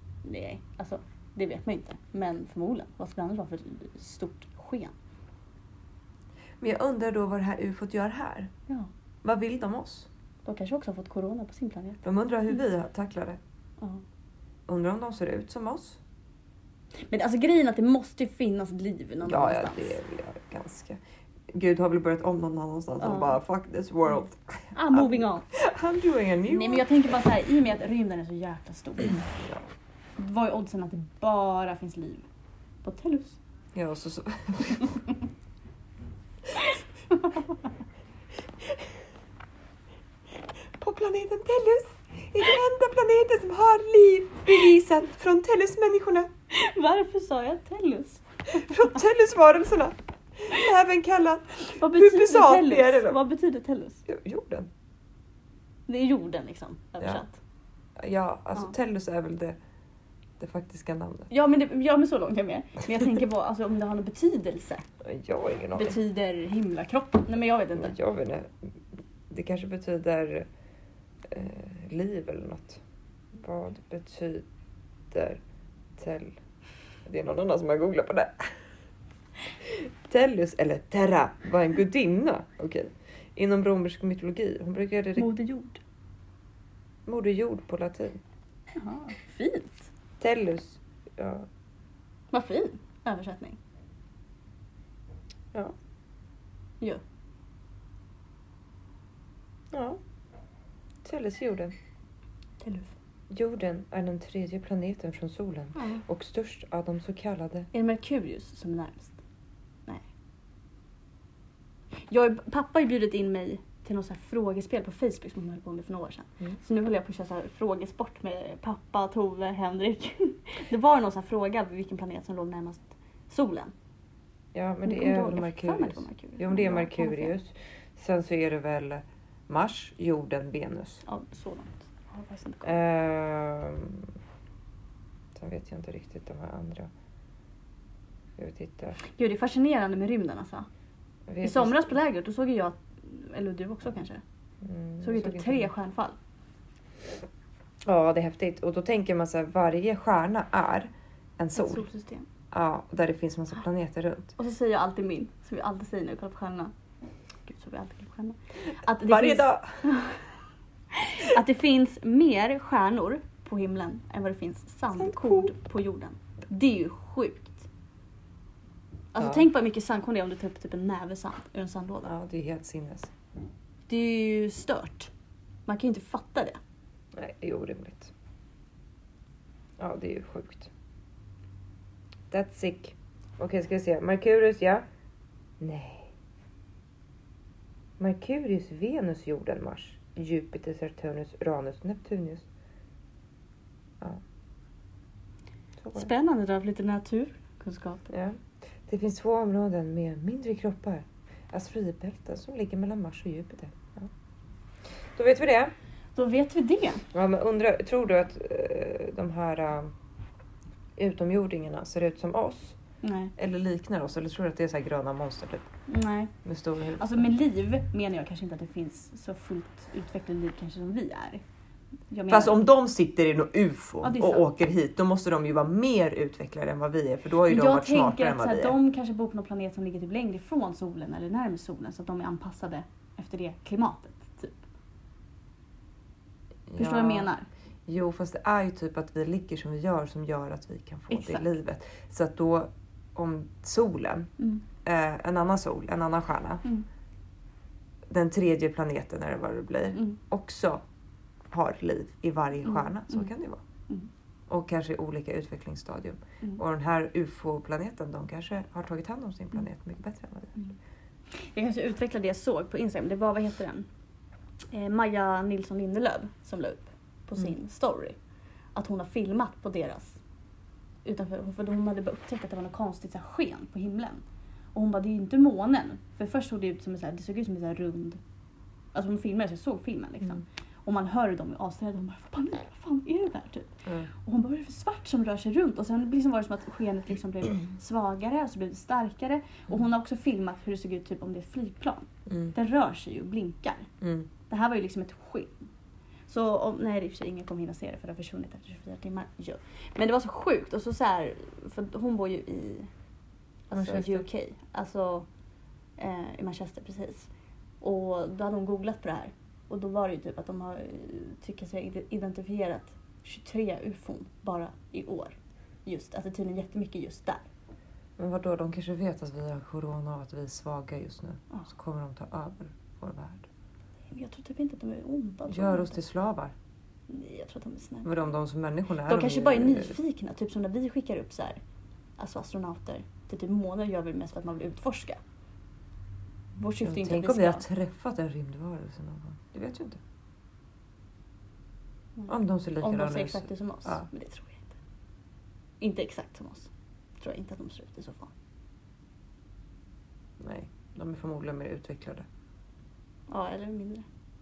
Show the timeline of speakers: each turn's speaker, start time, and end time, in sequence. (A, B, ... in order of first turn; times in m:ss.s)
0:00.2-0:04.9 A
0:06.6-0:08.5 B
0:09.2-0:10.1 B
0:10.4-0:12.0 A
0:12.0-0:13.4 B
0:14.7-0:16.0 B
0:17.1-0:20.0 A
0:19.2-0:26.9 B
0:23.0-0:23.4 A
0:24.7-0:25.5 A
0:26.5-0:29.3 A
0:29.4-0:29.7 B
0:30.2-0:32.2 A
0:32.8-0:33.4 A
0:33.7-0:35.0 B
0:40.8-0:46.3 B
0:46.5-0:48.9 A
0:48.5-0:53.2 B
0:51.8-0:54.0 A
0:54.1-0:54.7 B
0:55.9-0:57.4 A
0:58.0-0:59.6 B
1:00.4-1:01.3 B
1:01.3-1:04.8 A
1:05.0-1:06.0 B
1:05.8-1:08.0 A
1:07.8-1:10.5 B
1:11.3-1:12.8 B
1:13.4-1:14.5 B
1:15.1-1:15.4 B
1:16.0-1:16.4 B
1:17.0-1:18.5 B
1:19.6-1:25.3 B
1:25.2-1:25.8 A
1:27.1-1:28.2 B
1:28.8-1:29.9 A
1:30.2-1:31.5 B
1:32.3-1:33.6 A
1:39.7-1:40.0 B
1:41.0-1:41.7 B
1:42.6-1:42.9 A
1:43.3-1:47.7 B
1:45.8-1:46.0 A
1:47.7-1:49.2 A
1:52.1-2:03.7 A
2:04.5-2:11.0 B
2:04.8-2:07.4 A
2:11.0-2:12.8 A
2:12.6-2:14.1 B
2:15.4-2:16.9 B
2:18.4-2:19.0 B
2:19.0-2:20.7 A
2:21.3-2:21.9 B
2:21.4-2:24.2 A
2:24.6-2:25.7 B
2:25.0-2:26.2 A
2:27.8-2:31.8 B
2:31.6-2:32.3 A
2:32.5-2:34.4 B
2:34.4-2:36.7 A
2:37.5-2:40.2 A
2:39.0-2:39.8 B
2:40.9-2:47.6 A
2:45.0-2:45.5 B
2:49.1-2:52.1 A
2:49.2-2:49.4 B
2:52.0-2:53.1 B
2:53.9-2:55.1 A
2:55.7-2:56.6 A
2:57.1-2:58.1 B
2:59.8-3:00.7 B
3:02.3-3:04.9 B
3:05.6-3:06.1 B
3:08.0-3:12.4 B
3:15.8-3:16.1 B
3:15.9-3:18.1 A
3:18.1-3:24.1 B
3:25.2-3:25.7 B
3:26.2-3:27.1 A
3:27.1-3:29.9 B
3:31.0-3:32.8 B
3:33.0-3:33.3 A
3:33.4-3:35.7 B
3:35.9-3:36.3 A
3:36.4-3:37.2 B
3:37.0-3:41.4 A
3:42.1-3:42.6 A
3:42.3-3:48.8 B
3:44.0-3:44.5 A
3:47.5-3:54.6 A
3:56.7-3:57.3 B
3:56.8-3:57.5 A
3:57.9-4:04.3 B
4:01.1-4:01.5 A
4:04.8-4:06.6 B
4:08.1-4:10.8 B
4:11.5-4:13.6 B
4:12.6-4:13.3 A
4:14.5-4:20.6 B
4:21.3-4:23.9 A
4:24.7-4:28.2 A
4:28.8-4:30.2 A
4:31.0-4:34.2 A
4:34.7-4:38.2 A
4:38.9-4:53.9 A
4:52.3-4:52.5 B
4:54.0-4:54.3 B
4:54.5-4:55.6 A
4:56.3-5:02.9 A
5:03.7-5:05.3 A
5:03.7-5:04.3 B
5:06.0-5:07.3 A
5:07.8-5:15.4 A
5:15.9-5:17.4 A
5:18.2-5:23.5 B
5:24.1-5:26.0 A
5:25.5-5:26.5 B
5:27.1-5:28.1 A
5:28.0-5:30.0 B
5:29.1-5:31.6 A
5:32.2-5:35.2 A
5:36.6-5:37.7 A
5:36.8-5:40.0 B
5:42.2-5:44.7 A
5:42.3-5:44.1 B
5:45.8-5:48.3 A
5:50.4-5:52.3 B
5:53.3-5:54.0 A